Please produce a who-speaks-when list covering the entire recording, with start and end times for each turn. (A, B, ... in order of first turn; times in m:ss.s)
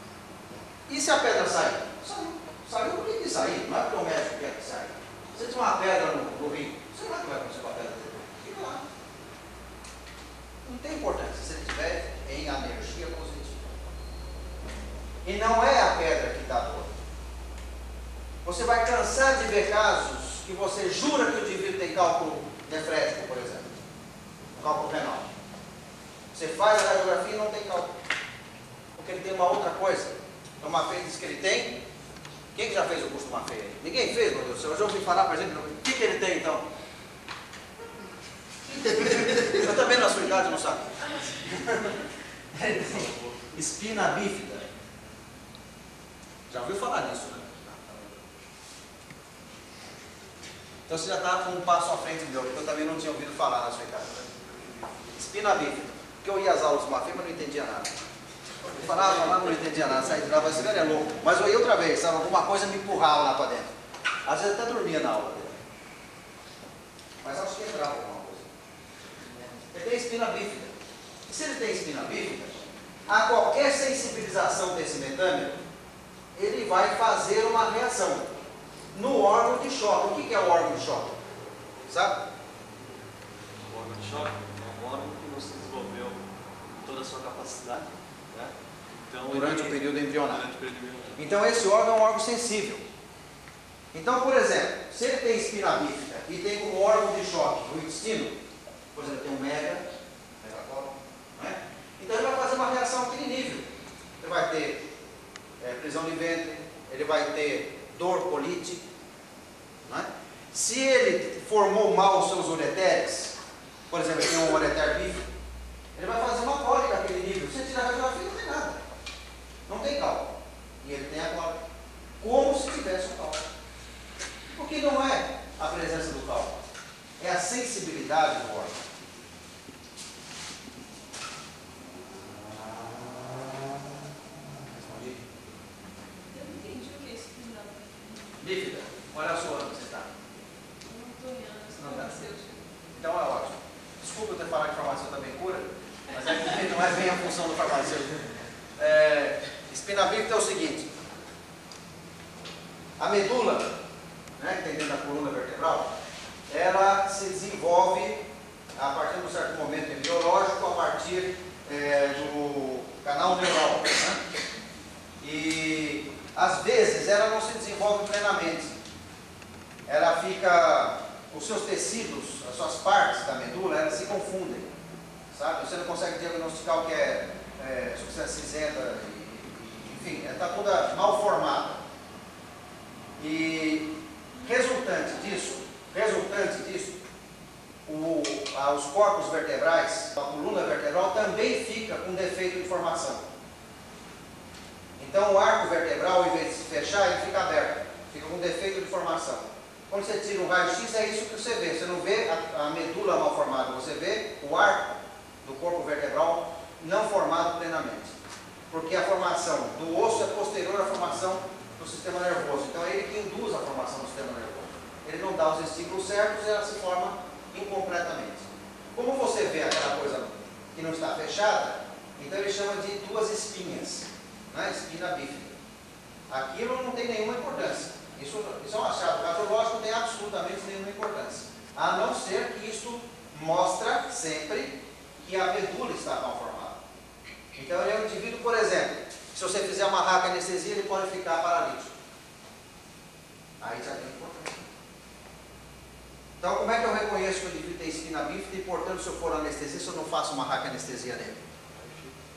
0:00.9-0:08.8 A
0:10.6-0:13.6 A
0:15.2-0:16.9 A
0:18.4-0:23.7 A
0:24.6-0:25.3 A
0:26.3-0:27.9 A
0:29.0-0:31.8 A
0:32.5-0:36.6 A
0:38.7-0:42.0 A
0:42.5-0:44.6 A
0:42.9-0:43.4 B
0:46.5-0:48.1 A
0:50.9-0:54.2 A
0:55.2-0:58.0 A
0:58.7-1:03.7 A
1:04.2-1:05.6 A
1:07.2-1:08.5 A
1:09.7-1:10.8 A
1:11.3-1:15.6 A
1:16.3-1:18.3 A
1:18.9-1:21.2 A
1:21.9-1:22.2 A
1:23.7-1:26.2 B
1:26.8-1:28.5 B
1:29.1-1:31.2 B
1:29.3-1:30.4 A
1:31.2-1:32.8 A
1:33.9-1:38.4 A
1:38.9-1:39.8 A
1:40.4-1:43.7 A
1:44.2-1:44.8 A
1:45.6-1:48.8 A
1:49.8-1:53.4 A
1:53.9-1:55.3 A
1:55.9-1:58.8 A
1:59.7-2:01.6 A
2:02.2-2:03.4 A
2:04.5-2:06.6 A
2:07.2-2:08.8 A
2:12.2-2:13.5 A
2:14.7-2:15.3 A
2:16.3-2:18.4 C
2:18.4-2:20.1 A
2:20.8-2:22.6 C
2:21.8-2:22.1 A
2:23.0-2:28.2 A
2:28.8-2:30.9 A
2:33.0-2:33.7 A
2:34.4-2:35.9 A
2:36.5-2:38.2 A
2:38.7-2:44.2 A
2:45.2-2:48.7 A
2:49.9-2:54.7 A
2:55.3-3:01.8 A
3:03.2-3:07.0 A
3:07.8-3:13.3 A
3:15.0-3:28.1 A
3:28.7-3:45.6 A
3:46.3-3:56.8 A
3:57.5-4:01.9 A
4:03.6-4:04.6 A
4:06.4-4:11.4 A
4:11.8-4:12.1 B